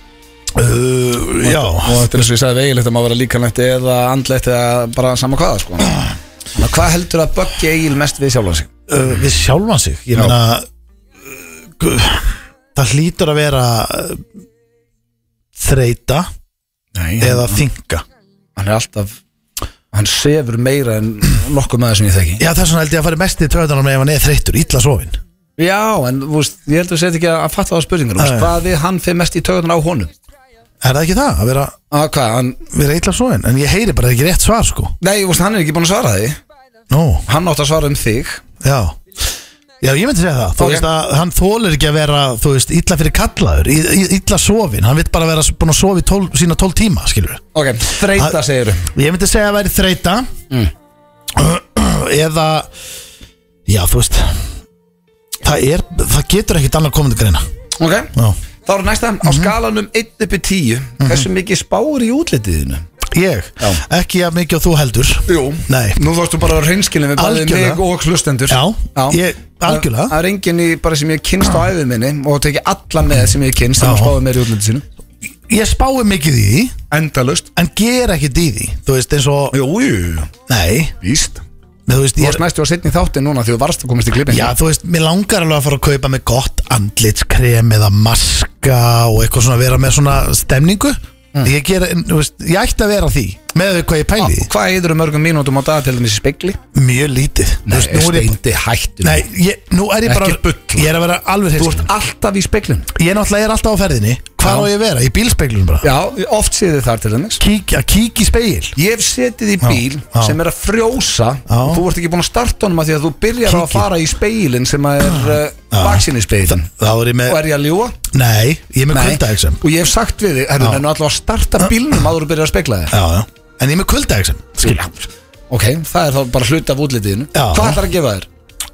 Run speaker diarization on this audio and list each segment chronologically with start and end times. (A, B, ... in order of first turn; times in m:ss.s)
0:00.5-0:02.1 A
0:01.4-0:06.0 B
0:06.5-0:08.7 B
0:08.9-0:10.6 A
0:11.3-0:14.2 A
0:15.6-0:16.3 A
0:16.9-0:17.6 B
0:17.2-0:18.0 A
0:18.6-0:19.2 B
0:19.9-0:22.4 B
0:22.4-0:25.2 A
0:25.6-0:30.1 B
0:28.2-0:28.5 A
0:30.8-0:31.7 A
0:31.9-0:32.6 B
0:32.7-0:34.9 A
0:35.0-0:36.4 B
0:36.9-0:37.2 A
0:37.3-0:38.4 B
0:38.6-0:39.0 A
0:39.8-0:47.4 A
0:40.6-0:40.9 B
0:47.5-0:48.9 B
0:48.0-0:48.4 A
0:48.9-0:50.3 A
0:51.3-0:52.7 A
0:53.7-0:54.4 A
0:55.4-0:57.4 A
0:57.8-0:58.1 B
0:58.6-1:02.8 B
0:59.2-0:59.5 A
1:01.0-1:01.3 A
1:03.1-1:06.0 A
1:05.3-1:14.8 B
1:07.2-1:07.8 A
1:08.5-1:10.1 A
1:13.8-1:14.2 A
1:15.5-1:16.8 A
1:16.9-1:17.5 B
1:17.5-1:19.6 A
1:19.5-1:20.3 B
1:20.5-1:20.9 A
1:21.0-1:21.4 B
1:21.9-1:22.4 A
1:22.2-1:24.5 B
1:24.3-1:34.5 A
1:34.2-1:36.6 B
1:36.7-1:38.4 A
1:37.6-1:39.2 B
1:39.0-1:41.9 A
1:40.0-1:40.9 B
1:41.6-1:42.9 B
1:42.9-1:45.9 A
1:44.4-1:44.7 B
1:45.8-1:47.4 B
1:47.4-1:48.7 A
1:48.8-1:56.7 B
1:49.6-1:50.4 A
1:51.5-1:51.8 A
1:53.4-1:53.9 A
1:55.1-1:57.4 A
1:57.3-1:58.0 B
1:58.0-1:59.6 A
1:58.9-2:02.9 B
2:02.9-2:04.9 A
2:04.6-2:08.3 B
2:07.3-2:07.8 A